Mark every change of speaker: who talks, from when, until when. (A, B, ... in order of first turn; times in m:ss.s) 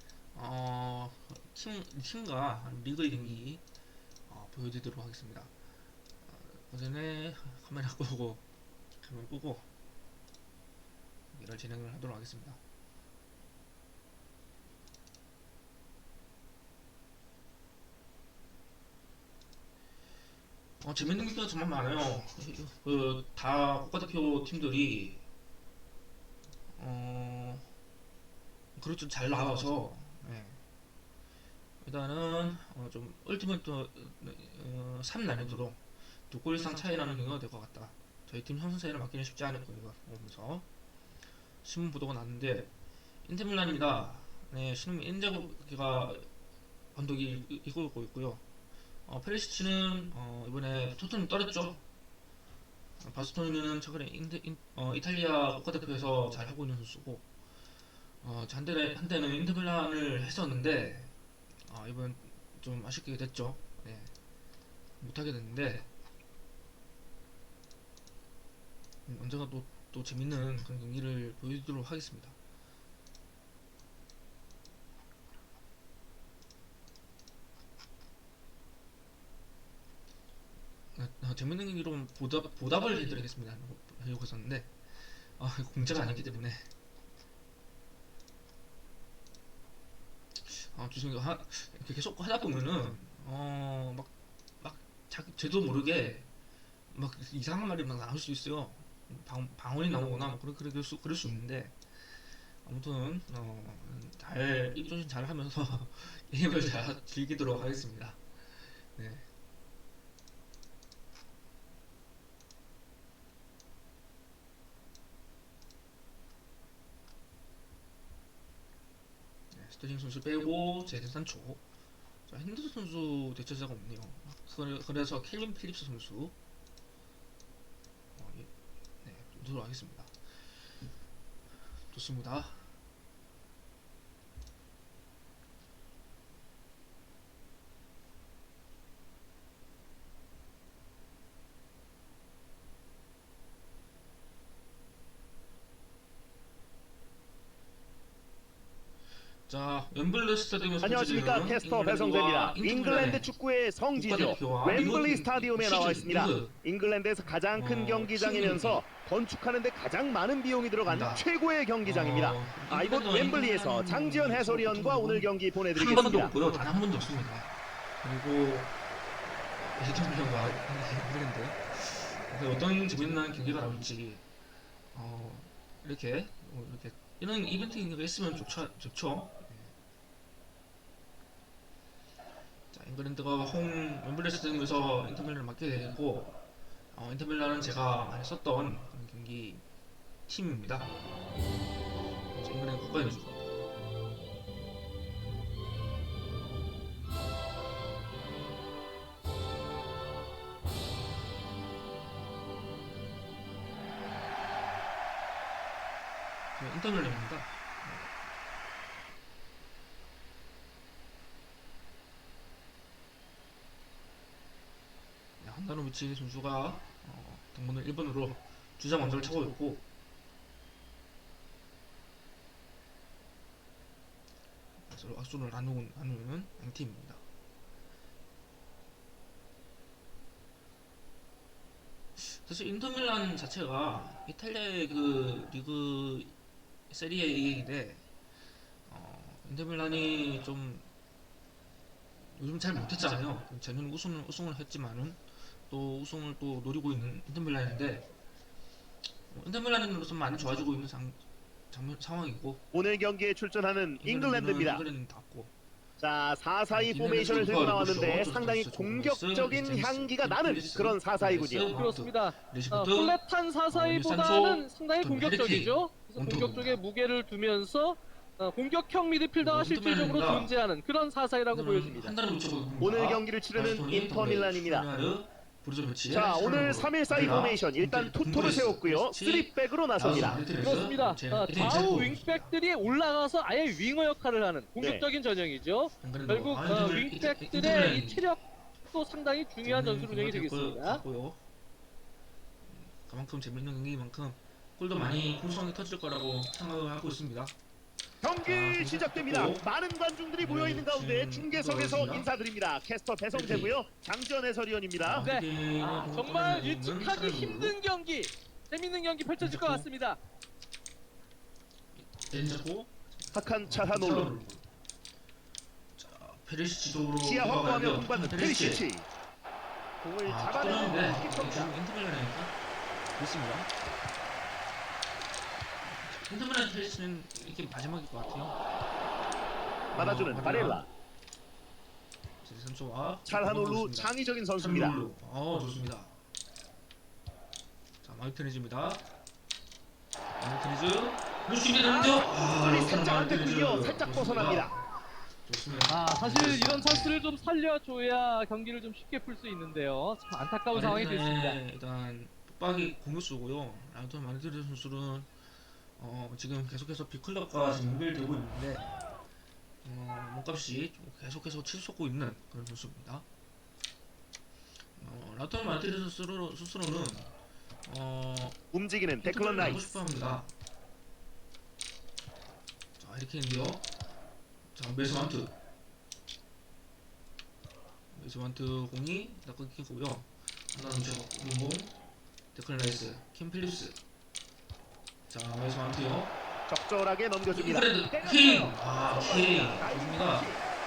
0:00.3-0:03.6 A
0:04.3-0:05.5 A
0:06.2-0:08.4 A
0:09.0-0:09.7 A
0:11.3-0:12.6 A
0:20.8-0:25.2 A
0:26.7-0:27.7 A
0:28.7-0:30.6 A
0:31.8-0:40.6 A
0:41.6-0:42.7 A
0:43.2-0:46.3 A
0:46.9-0:48.4 A
0:49.0-0:51.8 A
0:53.0-0:57.2 A
0:58.2-1:01.1 A
1:01.6-1:04.1 A
1:05.0-1:05.9 A
1:09.0-1:12.4 A
1:20.9-1:26.7 A
1:30.4-1:36.3 A
1:36.9-1:41.8 A
1:42.6-1:49.2 A
1:59.5-2:01.6 A
2:02.3-2:06.3 A
2:08.1-2:08.5 A
2:09.0-2:10.2 A
2:11.9-2:12.7 A
2:29.5-2:33.3 A
2:30.8-2:46.7 B
2:33.9-2:36.6 A
2:37.5-2:38.8 A
2:40.8-2:41.2 A
2:41.8-2:48.8 A
2:49.6-2:54.2 A
2:54.9-2:59.8 A
3:02.7-3:06.4 A
3:06.9-3:09.6 A
3:10.3-3:10.9 A
3:12.3-3:13.5 A
3:26.5-3:28.1 A
3:35.4-3:39.8 A
3:44.8-3:47.2 A
3:52.2-3:56.3 A
3:56.9-3:58.0 A
3:58.8-4:00.9 A
4:02.2-4:08.1 A
4:09.3-4:12.6 A
4:12.7-4:14.8 B
4:14.0-4:15.5 A
4:16.0-4:21.7 B
4:16.7-4:26.8 A
4:21.7-4:32.2 C
4:29.4-4:30.5 A
4:31.5-4:42.5 A
4:32.8-4:34.9 B
4:36.1-4:40.5 B
4:40.6-4:51.0 C
4:44.8-4:45.1 B
4:46.0-4:48.2 A
4:49.6-4:51.4 A
4:52.6-4:57.6 A
4:58.2-5:05.3 B
4:58.4-4:59.7 A
5:00.4-5:02.3 A
5:03.3-5:03.8 A
5:05.0-5:07.7 A
5:05.2-5:10.2 C
5:09.4-5:09.9 A
5:11.9-5:14.6 A
5:13.3-5:14.3 B
5:16.0-5:18.8 A
5:17.2-5:19.1 B
5:20.0-5:21.7 B
5:20.2-5:22.5 A
5:23.2-5:23.7 A
5:25.8-5:28.6 A
5:29.9-5:30.8 A
5:29.9-5:30.9 B
5:32.4-5:36.2 A
5:33.2-5:35.0 B
5:38.0-5:39.0 A
5:40.4-5:44.9 A
5:41.8-5:44.7 B
5:45.4-5:47.2 A
5:45.9-5:51.6 C
5:50.7-5:55.3 A
5:56.0-5:58.9 A
5:59.8-6:03.2 A
6:05.0-6:07.3 A
6:07.8-6:08.6 A
6:08.7-6:10.0 B
6:09.2-6:10.5 A
6:13.0-6:13.8 A
6:14.7-6:15.5 A
6:18.1-6:21.9 A
6:22.5-6:24.0 A
6:25.3-6:26.3 A
6:26.7-6:30.6 B
6:27.5-6:30.5 A